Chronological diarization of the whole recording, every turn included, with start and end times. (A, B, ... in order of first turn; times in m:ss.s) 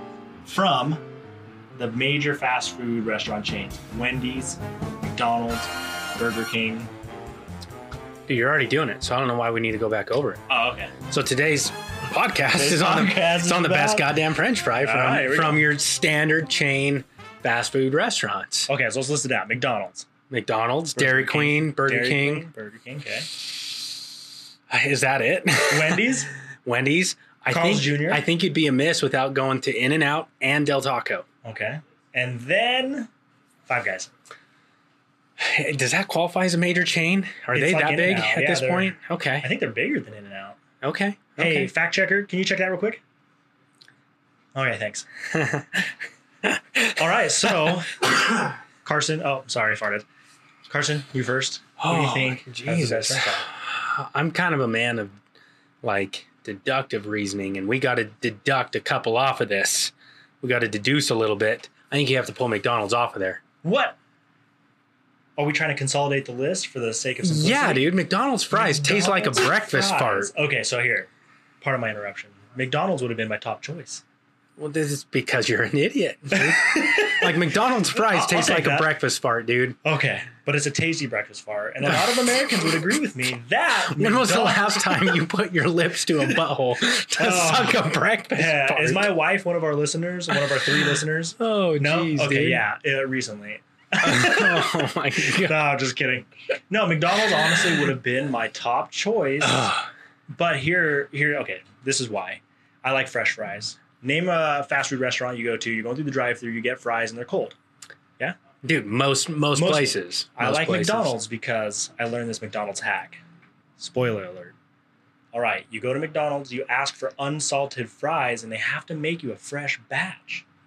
0:00.4-0:01.0 A
0:01.8-0:06.9 A
0:08.3-0:10.4 B
0:10.5-0:10.9 A
0:11.1-0:18.7 B
0:12.5-0:14.1 A
0:14.8-0:15.7 A
0:18.7-0:20.1 A
0:20.3-0:22.5 B
0:21.0-0:23.3 A
0:24.7-0:31.3 B
0:25.7-0:26.3 A
0:27.5-0:28.2 A
0:31.4-0:33.1 A
0:33.7-0:34.1 A
0:35.4-0:39.5 B
0:37.5-0:40.6 A
0:40.8-0:41.7 B
0:41.4-0:43.0 A
0:44.6-0:45.1 A
0:45.3-0:45.9 B
0:47.0-0:48.3 A
0:48.8-0:50.1 A
0:50.7-0:53.5 A
0:51.8-0:55.2 B
0:55.8-1:03.4 B
1:03.6-1:04.0 A
1:05.4-1:07.9 A
1:07.2-1:10.3 B
1:08.5-1:11.1 A
1:11.6-1:14.0 A
1:14.6-1:19.8 B
1:16.4-1:19.0 A
1:19.8-1:25.2 A
1:21.8-1:22.3 B
1:23.8-1:29.1 B
1:27.2-1:34.8 A
1:30.3-1:32.6 B
1:34.0-1:35.6 B
1:35.4-1:39.7 A
1:37.6-1:37.9 B
1:39.4-1:39.9 B
1:40.3-1:47.6 A
1:48.6-1:51.2 B
1:49.6-1:53.2 A
1:53.8-1:54.6 A
1:55.3-2:00.5 A